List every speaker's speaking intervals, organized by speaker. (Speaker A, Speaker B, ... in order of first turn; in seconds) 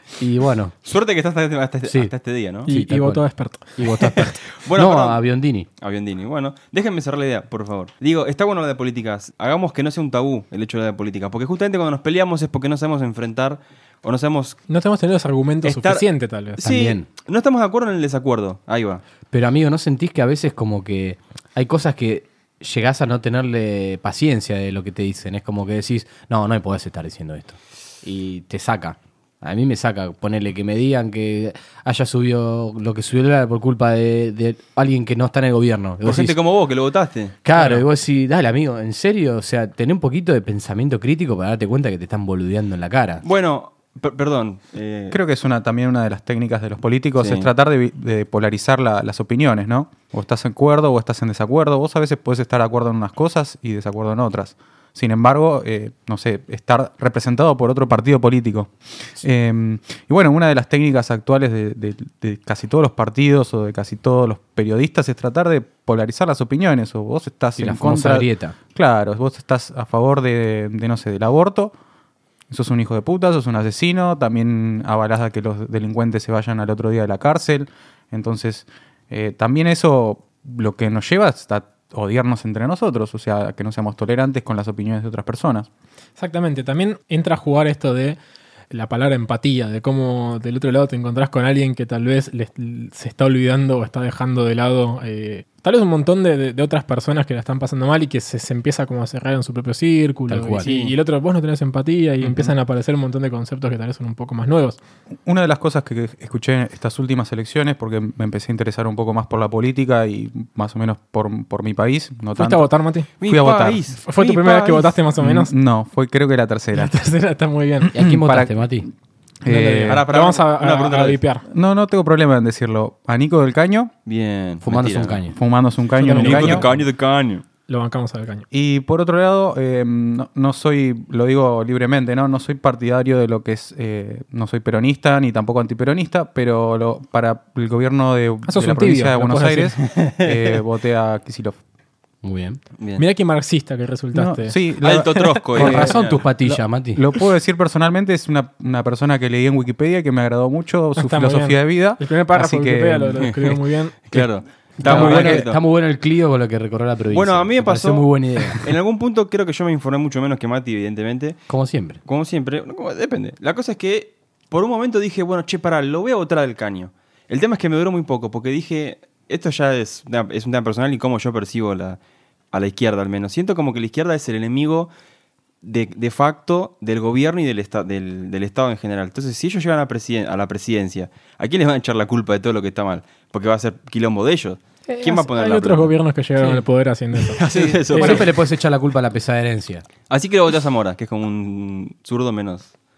Speaker A: 0.2-0.8, 1.9-2.1, 2.7-5.7, 16.6-17.0, 19.3-36.3, 37.4-43.2, 67.6-68.5, 100.3-100.7, 117.9-118.9, 124.6-125.4, 142.2-142.6, 145.6-147.0, 154.8-158.7, 161.5-162.0, 187.5-189.8
Speaker B: 0.8-2.7, 4.5-5.2, 5.8-14.6, 15.6-16.1, 16.6-19.0, 36.0-37.4, 43.2-45.2, 47.2-47.5, 100.6-100.9, 113.2-114.9, 119.9-121.2, 124.1-125.2, 126.1-127.4, 140.0-140.4, 144.8-146.2, 153.2-155.6, 157.1-161.4, 162.1-172.0, 172.5-174.9, 175.6-185.9, 187.3-188.4, 190.1-192.7
Speaker C: 2.7-4.4, 14.7-16.6, 37.5-37.8, 86.2-88.2, 88.7-104.8, 112.4-113.1, 114.0-115.5, 116.8-117.9, 119.5-121.4, 126.0-126.8, 127.7-128.4, 138.4-139.8, 143.0-144.6, 150.9-154.0, 184.9-187.4, 187.9-188.2
Speaker D: 45.1-71.8, 72.5-85.7, 105.2-112.7, 113.2-114.0, 115.2-117.0, 117.9-118.9, 119.4-120.1, 121.5-123.9, 125.3-126.7, 128.5-141.6, 144.1-153.3, 154.8-155.5